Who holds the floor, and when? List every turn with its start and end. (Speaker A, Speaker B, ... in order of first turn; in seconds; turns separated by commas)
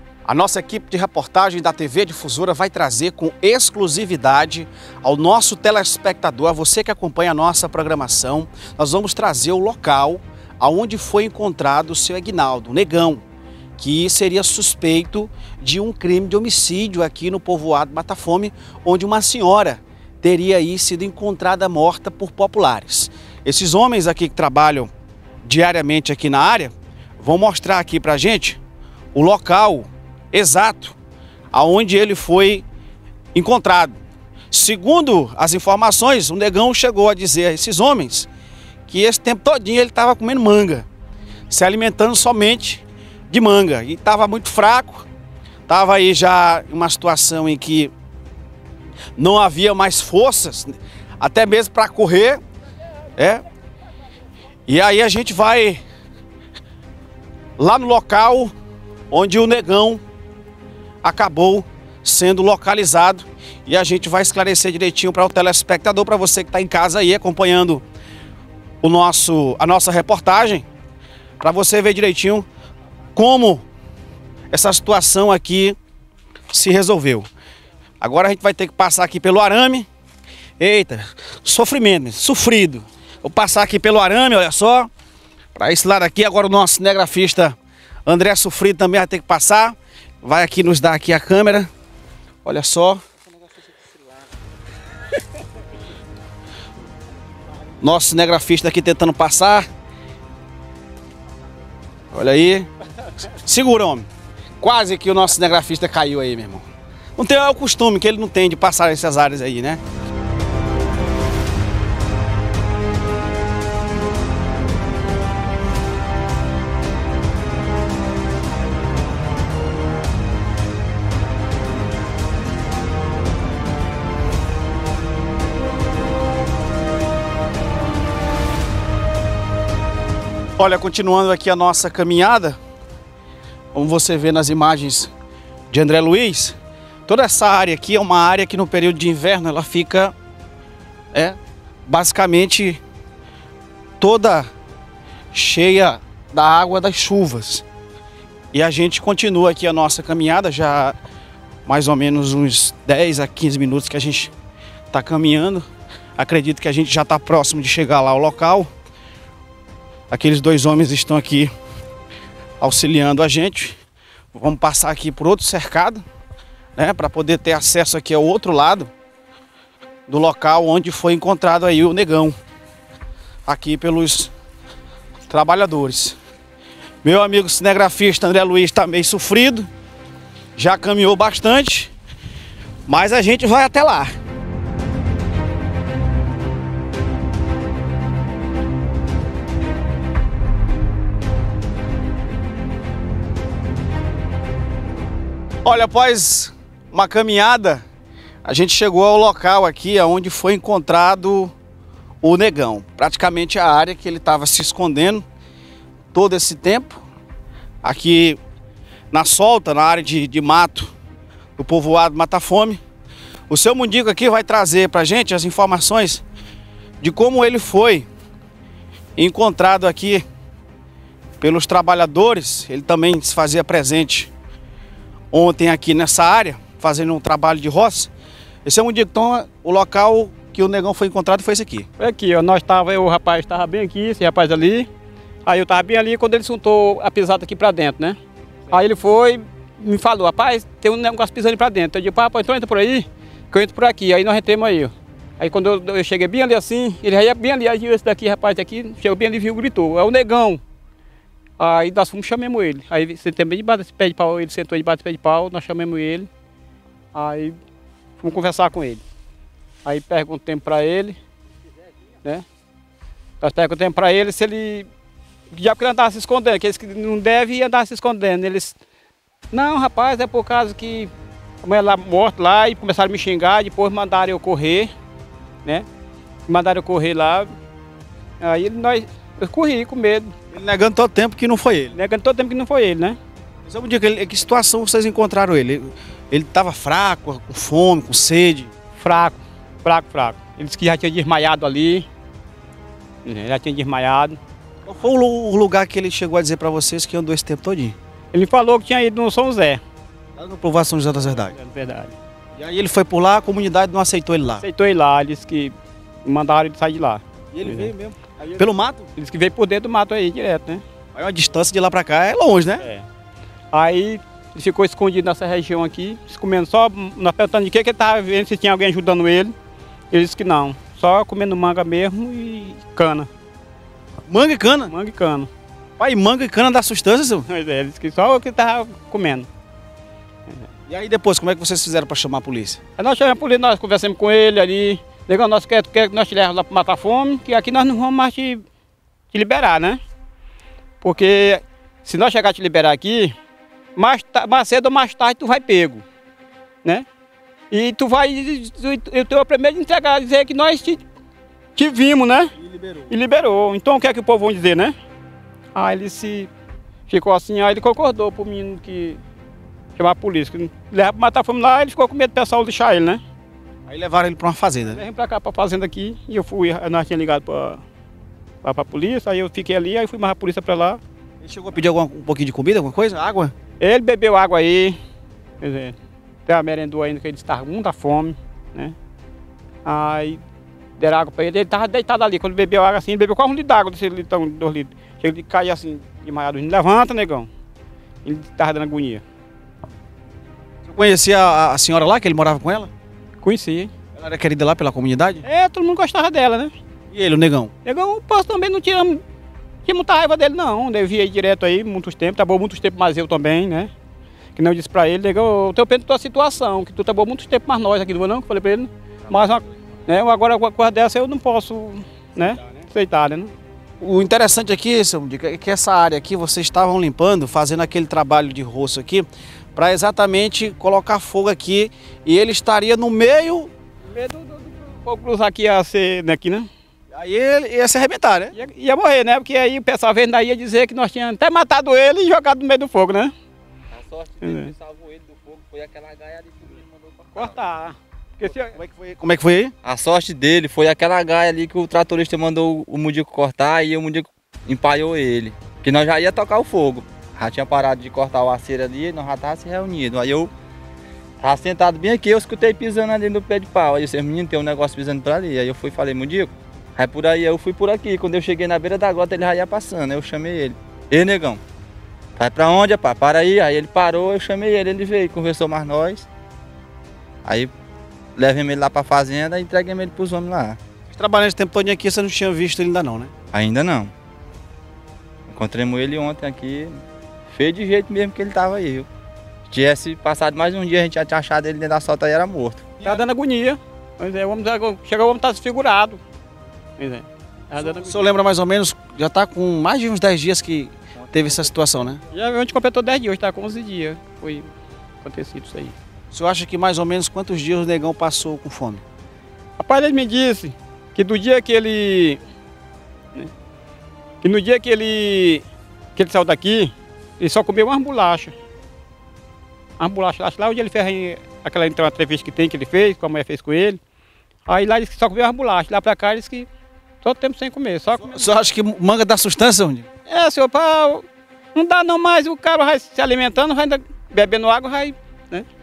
Speaker A: 0.2-13.2, Speaker A: 13.8-24.9, Speaker A: 25.4-28.6, Speaker A: 29.1-30.9, Speaker A: 31.5-32.6, Speaker A: 33.3-34.0, Speaker A: 34.5-38.3, Speaker A: 38.9-40.9, Speaker A: 41.5-45.0, Speaker A: 45.7-47.9, Speaker A: 49.2-52.4, Speaker A: 53.2-53.4, Speaker A: 54.7-55.8, Speaker A: 57.6-58.5, Speaker A: 59.1-60.0, Speaker A: 61.0-67.8, Speaker A: 68.8-70.7, Speaker A: 71.4-72.5, Speaker A: 73.1-73.6, Speaker A: 74.5-75.8, Speaker A: 76.5-77.3, Speaker A: 78.0-79.9, Speaker A: 80.6-84.9, Speaker A: 85.5-91.7, Speaker A: 92.4-93.0, Speaker A: 97.8-99.7, Speaker A: 102.1-104.1, Speaker A: 104.6-109.8, Speaker A: 130.6-132.6, Speaker A: 133.7-135.1, Speaker A: 135.7-136.5, Speaker A: 137.1-140.1, Speaker A: 141.1-142.8, Speaker A: 144.0-144.4, Speaker A: 145.3-147.6, Speaker A: 148.5-150.9, Speaker A: 151.7-154.3, Speaker A: 154.9-155.6, Speaker A: 156.2-158.7, Speaker A: 160.1-161.5, Speaker A: 162.6-163.8, Speaker A: 164.3-166.0, Speaker A: 166.8-168.9, Speaker A: 170.1-172.3, Speaker A: 173.4-174.3, Speaker A: 175.3-176.2, Speaker A: 177.0-179.7, Speaker A: 180.6-181.9, Speaker A: 182.9-184.1, Speaker A: 195.6-197.8, Speaker A: 198.4-201.5, Speaker A: 202.2-205.2, Speaker A: 206.1-207.0, Speaker A: 207.8-208.4, Speaker A: 209.1-210.9, Speaker A: 211.6-212.8, Speaker A: 213.5-216.2, Speaker A: 217.0-218.1, Speaker A: 219.2-220.2, Speaker A: 221.4-224.3, Speaker A: 225.3-228.1, Speaker A: 228.6-231.9, Speaker B: 232.0-234.9, Speaker B: 235.4-238.2, Speaker B: 238.7-250.6, Speaker B: 251.6-256.3, Speaker B: 257.1-257.6, Speaker B: 258.2-259.0, Speaker B: 259.8-261.2, Speaker B: 263.4-264.9, Speaker B: 265.5-268.8, Speaker B: 269.5-271.1, Speaker B: 271.6-274.9, Speaker B: 276.5-277.5, Speaker B: 278.4-280.3, Speaker A: 280.5-281.9, Speaker B: 281.9-283.2, Speaker A: 283.6-288.7, Speaker B: 289.0-292.1, Speaker B: 293.2-294.4, Speaker A: 294.8-297.9, Speaker B: 298.3-299.8, Speaker A: 300.4-301.5, Speaker B: 301.4-302.2, Speaker A: 302.6-304.6, Speaker B: 304.6-307.9, Speaker A: 307.5-309.1, Speaker B: 309.1-310.8, Speaker A: 311.1-312.8, Speaker B: 313.7-319.5, Speaker B: 320.1-323.3, Speaker A: 324.3-324.9, Speaker B: 324.9-325.5, Speaker A: 326.0-327.5, Speaker B: 327.5-329.5, Speaker A: 330.9-332.8, Speaker B: 333.0-338.6, Speaker B: 339.3-340.0, Speaker B: 341.0-343.3, Speaker B: 343.9-346.0, Speaker B: 347.7-351.0, Speaker B: 351.8-352.5, Speaker A: 352.6-353.1, Speaker B: 353.1-354.9, Speaker B: 355.7-356.5, Speaker B: 357.1-359.2, Speaker B: 359.9-363.2, Speaker A: 363.9-365.0, Speaker B: 364.9-367.8, Speaker B: 368.6-371.0, Speaker A: 371.4-373.5, Speaker B: 373.8-374.9, Speaker B: 375.6-375.9, Speaker B: 376.4-378.9, Speaker B: 379.8-380.4, Speaker B: 381.0-387.5, Speaker B: 388.2-389.2, Speaker A: 390.9-392.9, Speaker B: 393.4-393.9, Speaker A: 394.1-395.4, Speaker B: 395.4-396.7, Speaker A: 397.1-397.7, Speaker B: 397.8-399.2, Speaker B: 399.8-403.9, Speaker B: 404.6-413.5, Speaker A: 414.0-423.7, Speaker B: 424.1-426.7, Speaker A: 427.1-428.5, Speaker B: 428.5-433.3, Speaker C: 433.9-437.5, Speaker B: 434.4-434.7, Speaker B: 437.3-438.7, Speaker A: 438.6-439.7, Speaker C: 439.8-450.5, Speaker C: 451.4-461.6, Speaker C: 462.4-466.3, Speaker C: 467.4-467.7, Speaker C: 468.4-470.8, Speaker A: 471.1-473.3, Speaker C: 473.5-474.1, Speaker C: 475.5-477.0, Speaker C: 477.6-479.1, Speaker C: 479.7-482.9, Speaker B: 483.0-486.2, Speaker B: 487.0-488.2, Speaker A: 487.8-492.2, Speaker C: 491.4-491.9, Speaker B: 492.3-494.7, Speaker B: 495.2-495.9, Speaker A: 496.3-499.0, Speaker B: 499.8-502.4, Speaker B: 504.4-505.6, Speaker B: 506.1-508.5, Speaker B: 510.0-514.0, Speaker B: 514.7-516.7, Speaker B: 517.2-518.5, Speaker A: 518.2-520.1, Speaker B: 520.3-525.6